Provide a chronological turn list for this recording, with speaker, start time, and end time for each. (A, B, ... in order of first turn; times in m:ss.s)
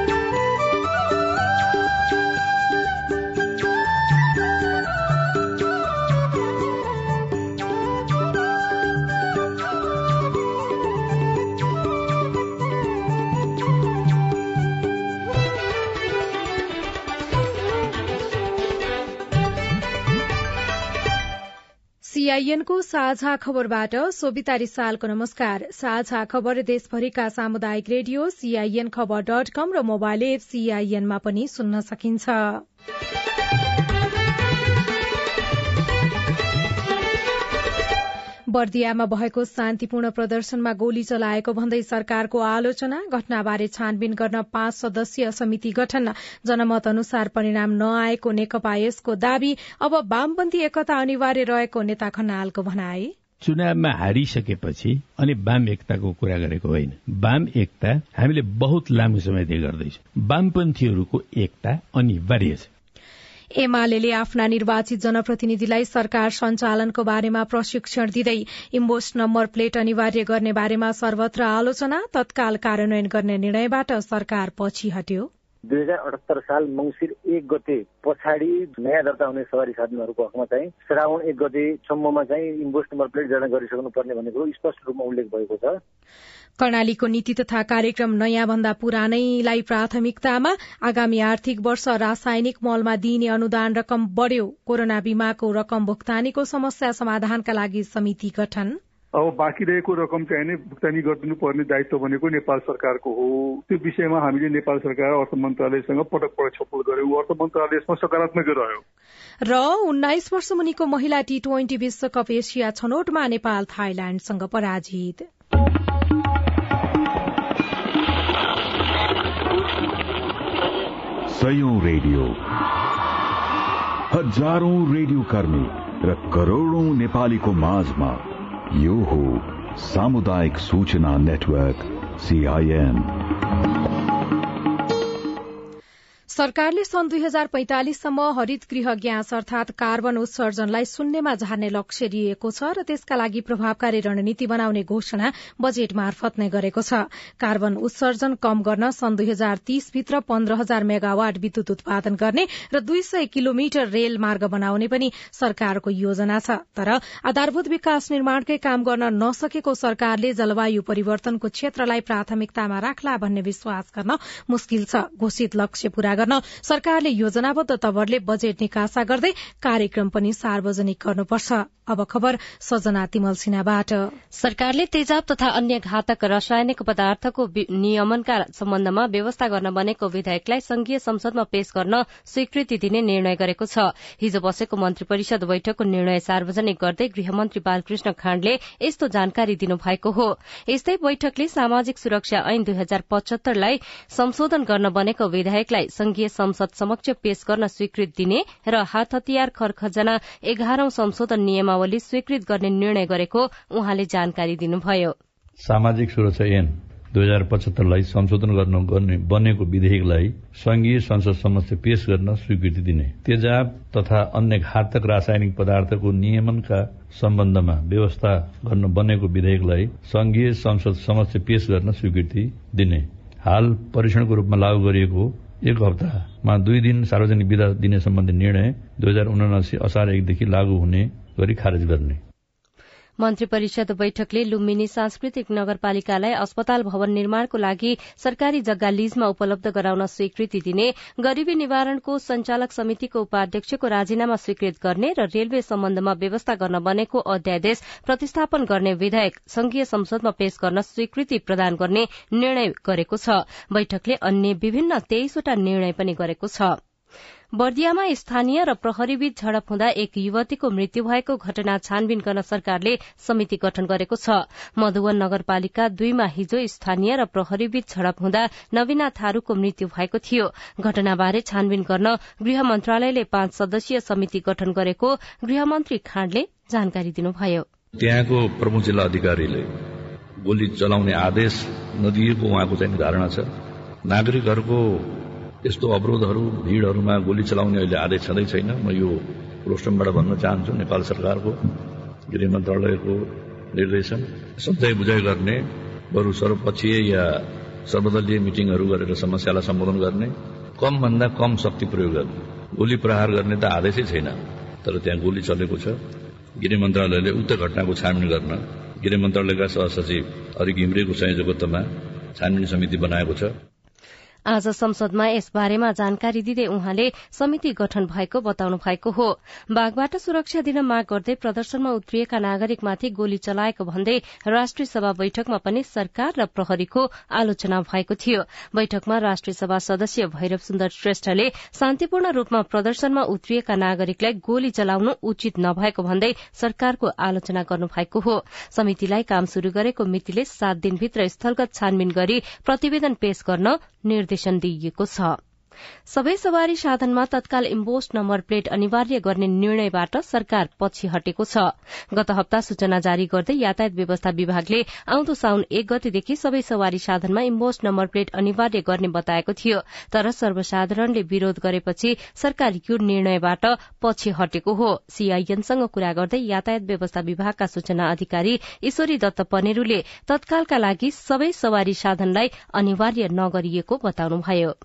0:22.0-0:32.6 A
0:38.5-0:53.1 A
0:53.4-1:02.7 B
1:03.6-1:15.3 A
1:15.7-1:25.8 C
1:26.6-1:38.8 A
1:39.1-1:48.8 D
1:49.4-1:55.3 A
2:01.3-2:02.4 E
2:04.1-2:13.2 E
2:16.3-2:54.1 A
2:54.3-3:25.1 F
3:25.6-3:52.2 G
3:53.2-4:16.8 F
4:17.6-4:37.6 F
4:38.0-4:39.7 G
4:40.4-4:43.5 G
4:44.1-4:51.6 G
4:52.3-5:06.0 G
5:06.6-5:13.5 G
5:14.5-5:45.4 F
5:46.1-6:14.7 F